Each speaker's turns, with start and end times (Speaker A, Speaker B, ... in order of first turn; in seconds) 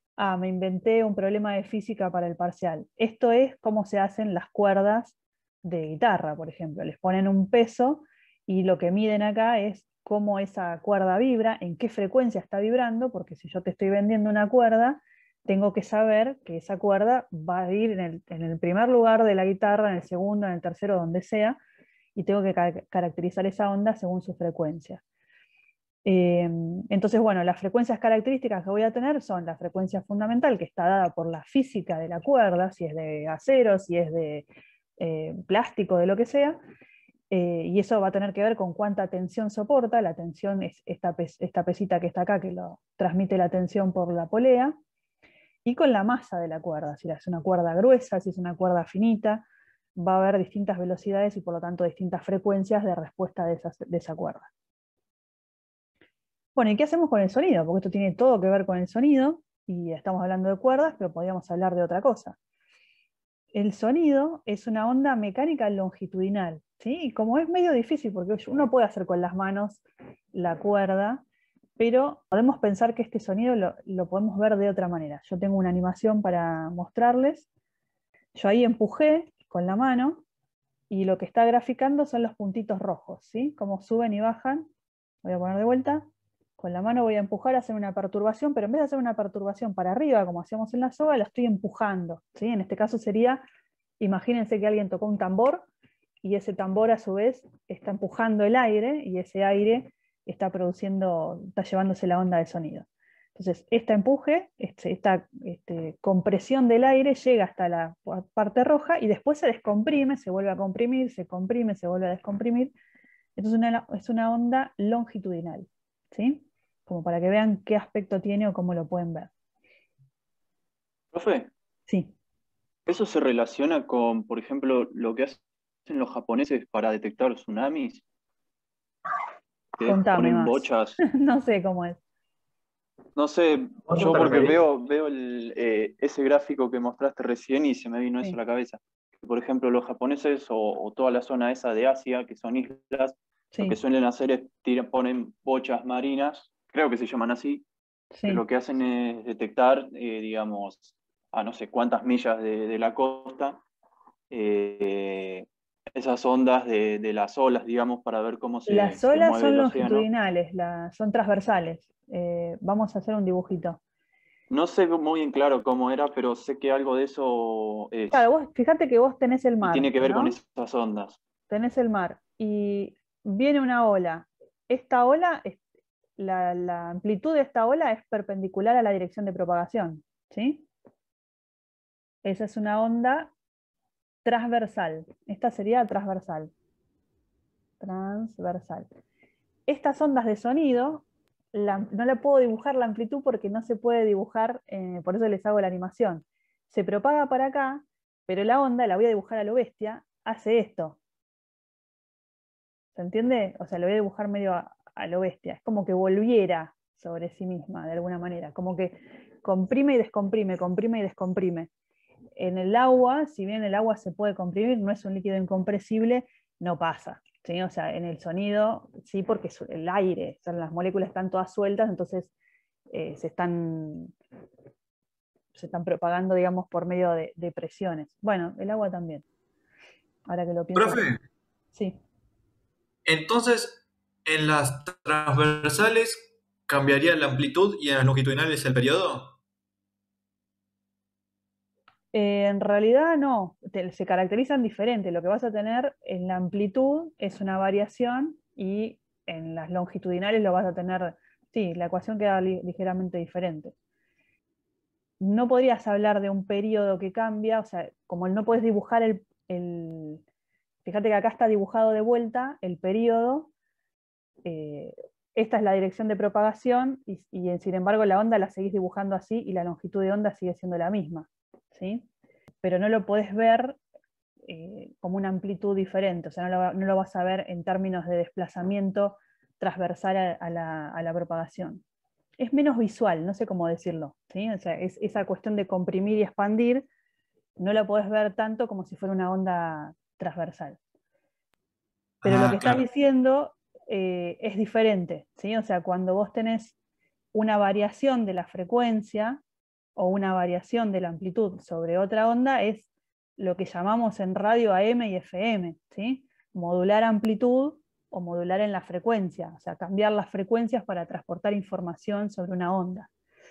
Speaker A: 0.2-21.6, 22.2-25.0, 26.1-34.5, 35.0-36.6, 37.3-44.8, 45.6-54.5, 56.5-62.4, 63.5-71.2, 71.8-77.5, 78.3-80.2, 80.9-84.7, 85.2-93.4, 94.0-95.7, 96.2-112.7, 113.4-119.3, 121.9-122.1, 129.8-132.0, 148.1-148.4, 158.7-163.8, 168.1-170.4, 171.5-175.6, 176.2-180.7, 182.2-183.3, 184.2-186.5, 187.8-188.9, 189.7-201.0, 202.9-211.7, 212.4-222.3, 222.9-224.2, 225.5-229.2, 230.3-231.1, 231.7-232.0, 242.1-253.7, 255.2-260.2, 260.8-263.5, 264.4-272.1, 272.6-273.8, 274.5-281.8, 282.4-286.9, 287.6-290.8, 292.2-296.8, 297.3-299.4, 300.0-313.1
Speaker B: 121.1-121.5, 122.9-128.0, 129.8-131.0, 133.2-147.6, 148.2-153.6, 154.3-160.1, 164.5-168.3, 169.6-171.2
Speaker C: 230.8-231.2, 233.1-239.3, 292.2-292.8